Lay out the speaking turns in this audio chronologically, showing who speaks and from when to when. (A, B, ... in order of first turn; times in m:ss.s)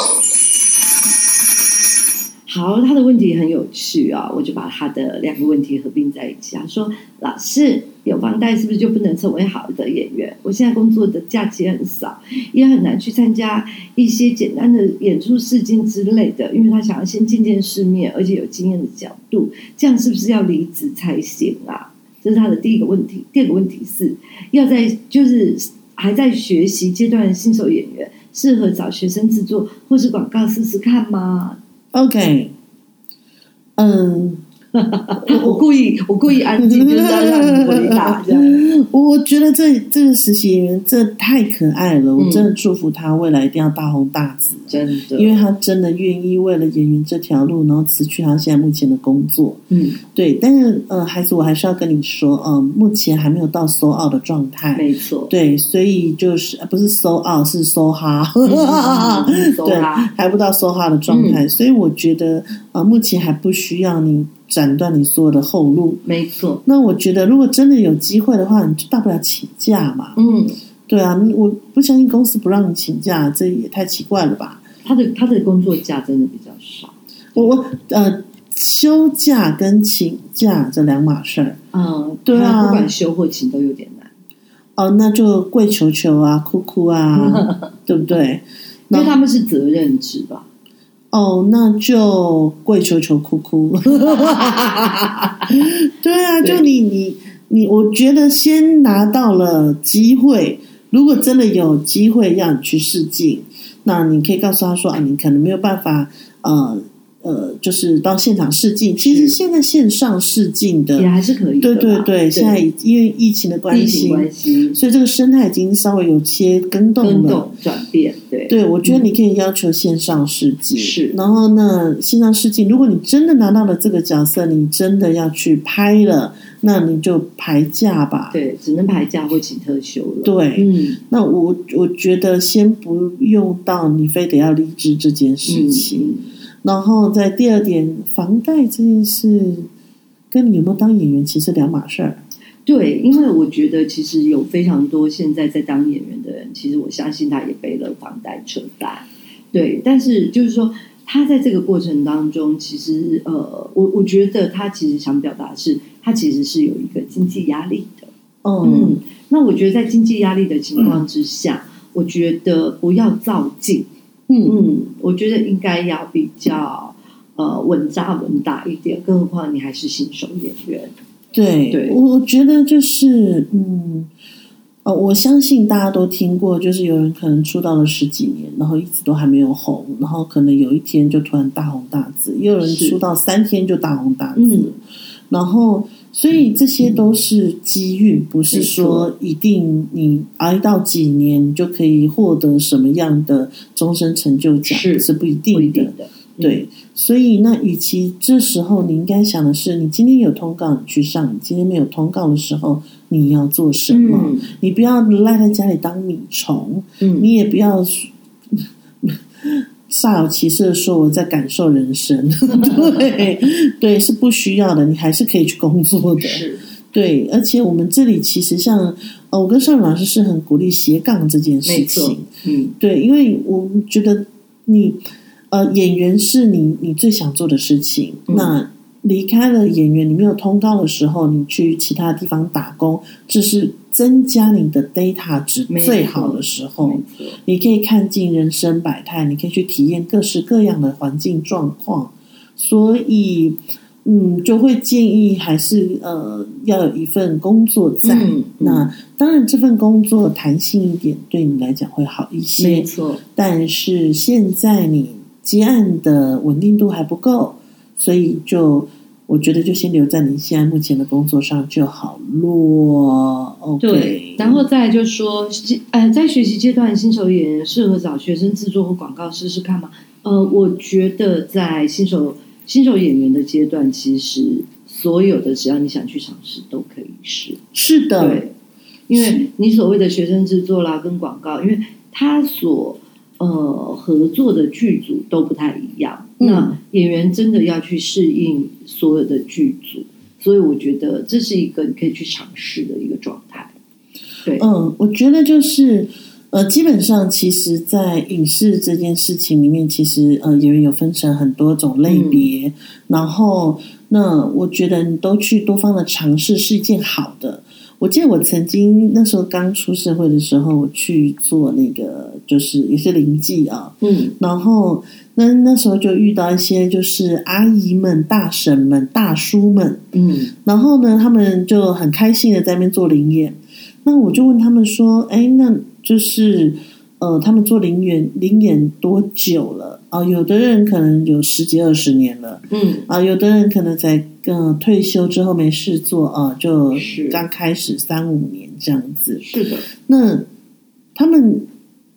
0:02.5-0:31.6 A
0:31.9-0:32.5 B
0:33.8-0:34.4 B
0:34.8-0:38.6 A
0:35.2-0:35.6 B
0:36.6-1:06.0 B
0:42.2-0:42.5 A
0:44.7-0:45.4 A
0:49.7-0:50.0 A
0:54.8-0:55.3 A
0:58.4-1:00.1 A
1:01.1-1:01.4 A
1:06.0-1:06.6 A
1:06.6-1:10.2 B
1:10.2-1:10.6 A
1:10.9-1:14.6 B
1:14.8-1:17.5 A
1:17.3-1:21.6 B
1:21.7-1:24.1 A
1:22.2-1:22.9 B
1:24.8-1:29.2 B
1:27.2-1:27.7 A
1:28.9-1:30.5 A
1:31.1-1:51.1 B
1:34.0-1:34.5 A
1:49.0-1:49.4 A
1:51.0-1:52.6 A
1:51.6-1:57.5 B
1:53.7-1:54.8 A
1:57.0-1:59.1 A
1:58.5-2:08.4 B
2:00.8-2:01.2 A
2:08.3-2:11.0 A
2:10.2-2:16.1 B
2:15.5-2:16.3 A
2:16.6-2:19.7 B
2:20.3-2:22.2 B
2:22.7-2:38.1 A
2:38.4-2:39.0 B
2:38.6-2:43.9 A
2:44.3-2:44.6 B
2:44.4-2:50.9 A
2:51.3-2:54.1 B
2:51.7-2:52.0 A
2:54.8-3:04.8 B
3:02.6-3:03.0 A
3:04.4-3:04.8 A
3:05.3-3:42.3 B
3:08.5-3:09.1 A
3:14.7-3:16.6 A
3:23.9-3:24.5 A
3:27.0-3:27.3 A
3:32.5-3:33.1 A
3:36.2-3:36.7 A
3:41.6-3:42.8 A
3:42.8-4:24.6 B
3:48.3-3:48.5 A
3:55.7-3:57.4 A
4:08.0-4:08.9 A
4:12.6-4:13.2 A
4:23.8-4:37.6 A
4:37.7-4:38.4 B
4:38.2-4:38.5 A
4:39.1-4:53.7 A
4:39.1-4:39.4 B
4:46.4-4:46.8 B
4:54.6-5:20.0 B
5:02.1-5:02.5 A
5:14.0-5:14.4 A
5:20.1-5:20.5 A
5:20.6-5:40.5 B
5:32.7-5:33.1 A
5:36.9-5:37.4 A
5:39.4-5:39.9 A
5:41.2-5:41.7 B